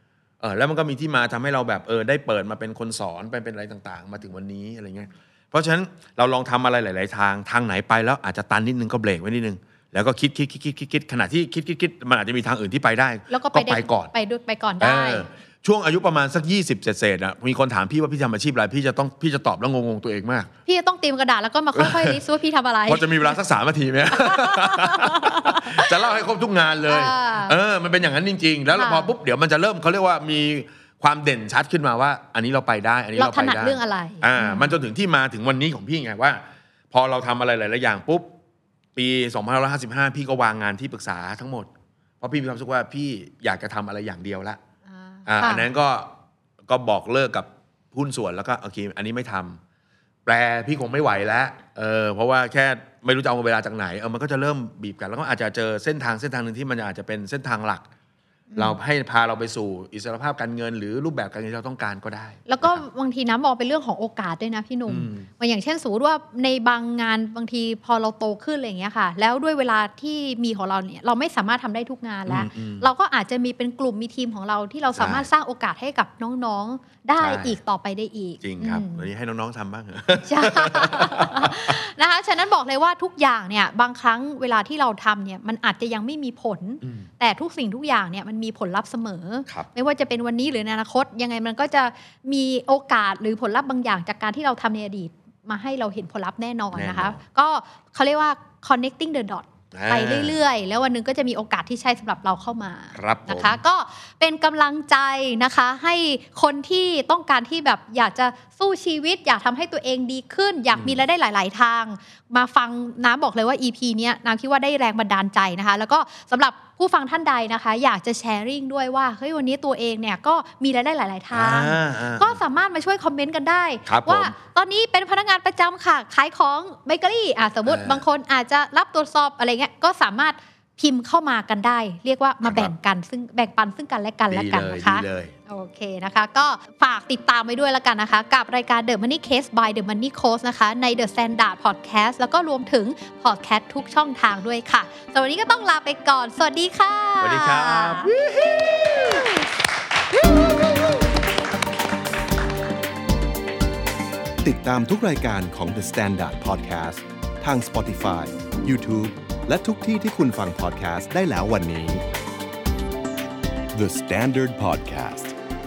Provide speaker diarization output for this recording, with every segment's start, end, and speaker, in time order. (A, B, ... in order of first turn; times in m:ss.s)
0:00.4-0:14.1 A
0:13.3-0:15.3 B
0:14.8-0:20.5 A
0:20.7-0:23.4 B
0:21.8-0:22.2 A
0:22.9-0:38.3 A
0:24.1-0:26.2 B
0:26.9-0:27.6 B
0:28.7-0:29.1 B
0:33.2-0:34.7 B
0:39.0-0:41.7 A
0:42.2-0:44.6 A
0:44.9-0:45.7 B
0:45.3-0:46.1 A
0:46.6-0:49.6 A
0:50.3-0:57.9 A
0:58.5-0:58.8 B
0:58.6-1:02.8 A
1:02.5-1:19.1 B
1:04.9-1:05.3 A
1:12.3-1:12.9 A
1:15.0-1:15.3 A
1:17.2-1:17.6 A
1:18.4-1:21.8 A
1:20.3-2:28.1 B
1:26.8-1:27.1 A
1:36.7-1:37.2 A
1:39.7-1:40.4 A
1:43.0-1:43.6 A
1:50.7-1:51.0 A
2:01.3-2:02.4 A
2:03.9-2:04.3 A
2:07.7-2:08.0 A
2:12.4-2:12.7 A
2:14.3-2:15.4 A
2:27.2-2:29.4 A
2:30.1-2:31.0 A
2:34.4-2:42.0 C
2:43.7-2:45.4 C